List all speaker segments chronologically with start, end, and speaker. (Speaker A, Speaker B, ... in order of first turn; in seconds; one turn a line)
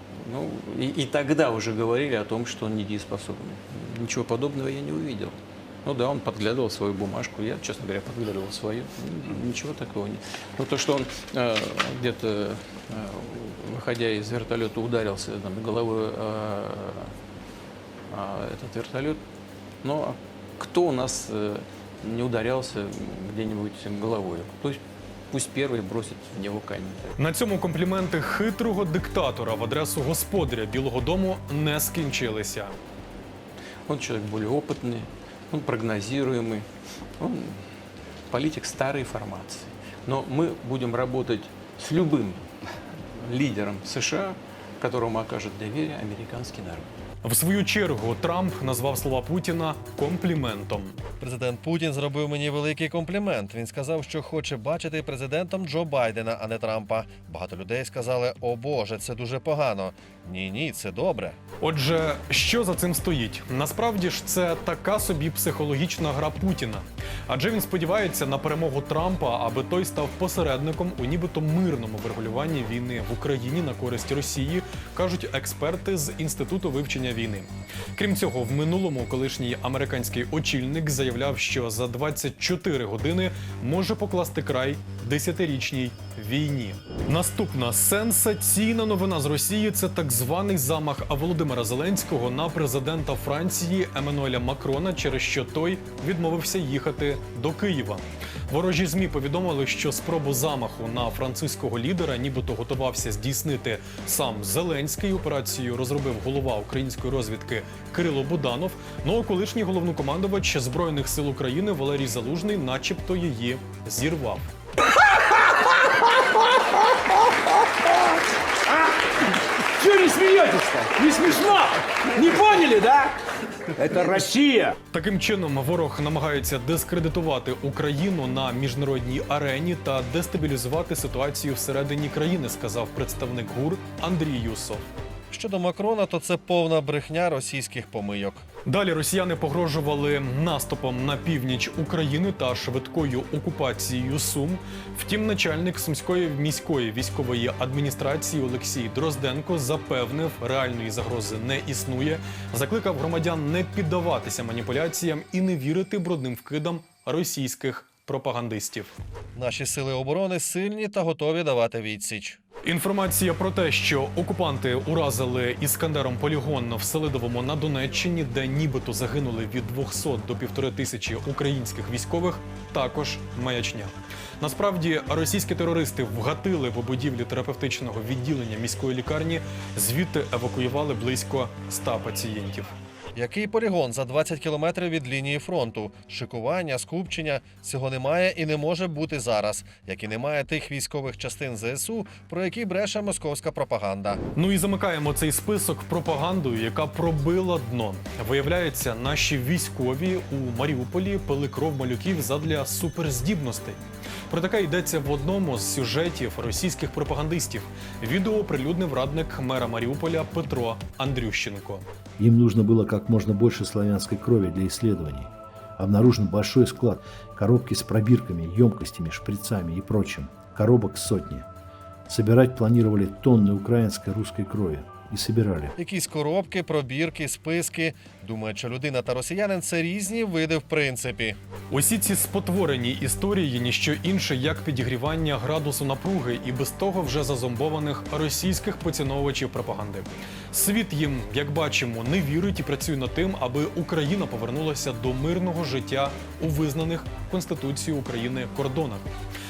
Speaker A: 0.2-17.1
Speaker A: 18.1-19.2
Speaker A: 19.8-27.2
Speaker B: 27.2-32.8
Speaker A: 33.9-36.7
Speaker A: 37.2-37.6
Speaker A: 38.3-46.9
Speaker B: 47.2-51.0
Speaker C: 51.2-61.4
Speaker B: 61.6-114.5
Speaker D: 119.8-123.1
Speaker D: 123.7-124.8
Speaker B: 124.9-134.8
Speaker C: 135.3-138.4
Speaker B: 138.7-158.9
Speaker C: 159.3-162.4
Speaker B: 162.6-182.7
Speaker C: 183.1-194.2
Speaker B: 194.3-211.8
Speaker E: 212.2-221.5
Speaker E: 222.1-225.7
Speaker C: 225.8-231.4
Speaker B: 231.7-249.0